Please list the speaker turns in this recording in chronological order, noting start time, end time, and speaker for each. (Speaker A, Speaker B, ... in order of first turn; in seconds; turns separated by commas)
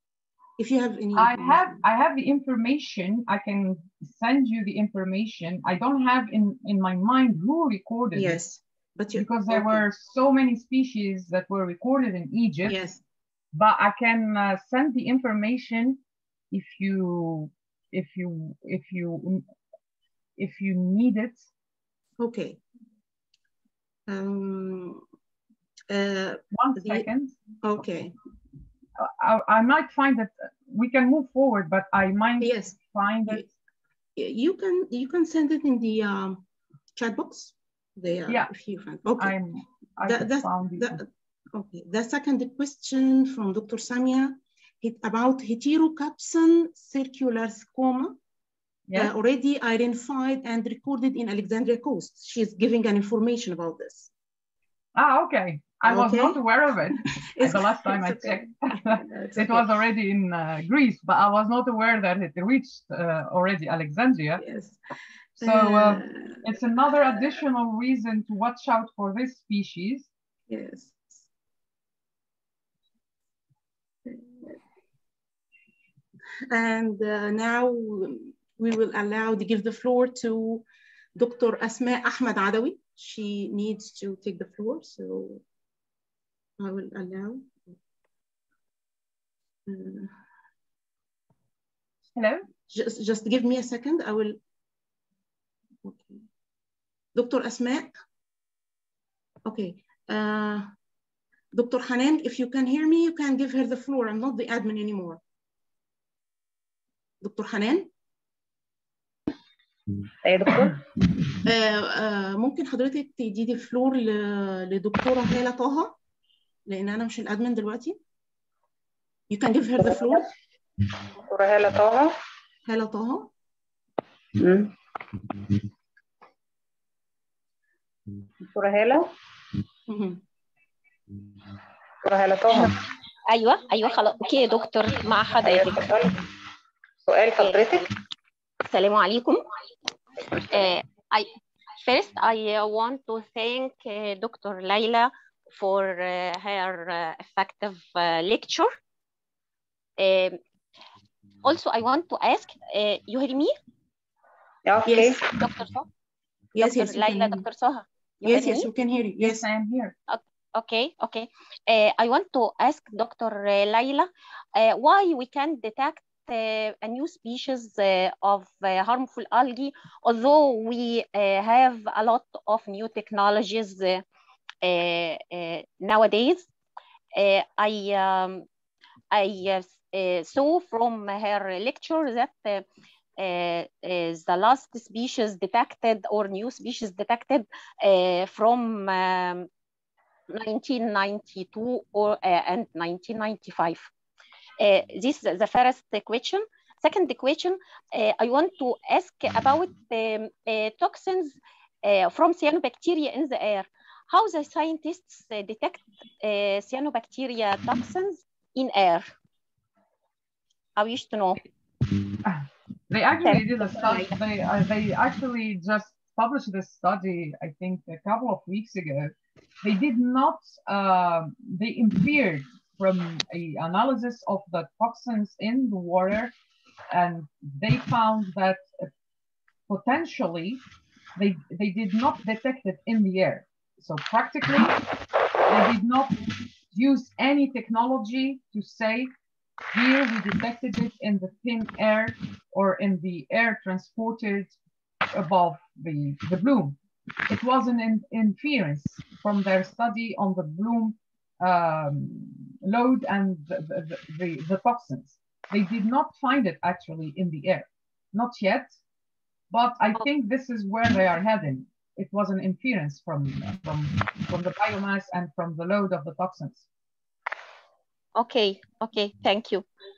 Speaker A: 0.6-1.8, Speaker B: 1.2-8.4, Speaker A: 8.2-9.8, Speaker B: 9.2-12.8, Speaker A: 12.7-13.0, Speaker B: 13.5-19.4, Speaker B: 20.4-21.5, Speaker A: 22.2-22.6, Speaker A: 24.1-25.0, Speaker A: 25.9-27.1, Speaker B: 26.5-27.4, Speaker A: 27.6-28.1, Speaker B: 29.0-33.5, Speaker A: 32.4-33.5, Speaker A: 34.2-36.4, Speaker A: 37.0-39.4, Speaker B: 39.2-41.0, Speaker A: 40.1-48.2, Speaker B: 48.9-49.1, Speaker A: 49.0-54.1, Speaker B: 55.0-64.4, Speaker A: 55.9-56.4, Speaker A: 57.2-59.7, Speaker A: 64.4-64.8, Speaker B: 65.4-70.1, Speaker A: 65.4-66.4, Speaker A: 70.5-71.2, Speaker A: 74.1-74.6, Speaker A: 76.5-80.7, Speaker A: 81.2-85.4, Speaker A: 86.6-87.7, Speaker A: 89.7-90.1, Speaker B: 92.2-92.5, Speaker A: 92.7-94.4, Speaker A: 95.8-96.2, Speaker A: 97.2-97.9, Speaker A: 99.5-100.7, Speaker A: 101.5-105.2, Speaker A: 107.2-107.9, Speaker C: 110.2-110.8, Speaker A: 111.4-116.0, Speaker A: 116.7-118.0, Speaker A: 119.3-120.3, Speaker C: 119.8-120.2, Speaker C: 121.2-122.2, Speaker A: 122.7-123.3, Speaker C: 124.4-124.7, Speaker C: 128.4-129.1, Speaker A: 129.9-130.2, Speaker C: 132.0-132.8, Speaker D: 133.3-135.8, Speaker C: 135.4-136.2, Speaker C: 137.1-137.9, Speaker D: 138.7-139.4, Speaker D: 140.3-148.8, Speaker D: 150.0-150.4, Speaker D: 151.4-153.5, Speaker C: 154.7-155.2, Speaker A: 154.8-155.2, Speaker D: 155.3-155.9, Speaker A: 156.5-157.4, Speaker D: 156.6-158.7, Speaker A: 158.2-159.5, Speaker B: 159.2-159.9, Speaker D: 160.1-174.0, Speaker D: 174.6-176.5, Speaker D: 177.2-178.4, Speaker D: 179.1-182.7, Speaker D: 183.2-189.5, Speaker D: 190.3-193.9, Speaker D: 194.6-209.1, Speaker D: 210.8-211.4, Speaker B: 212.2-226.3, Speaker D: 213.3-214.1, Speaker B: 226.9-228.9, Speaker B: 229.7-230.6, Speaker B: 231.2-234.8, Speaker B: 235.5-239.1, Speaker B: 239.7-244.6, Speaker B: 245.1-246.8, Speaker B: 247.3-258.8, Speaker B: 259.5-266.7, Speaker D: 268.1-269.7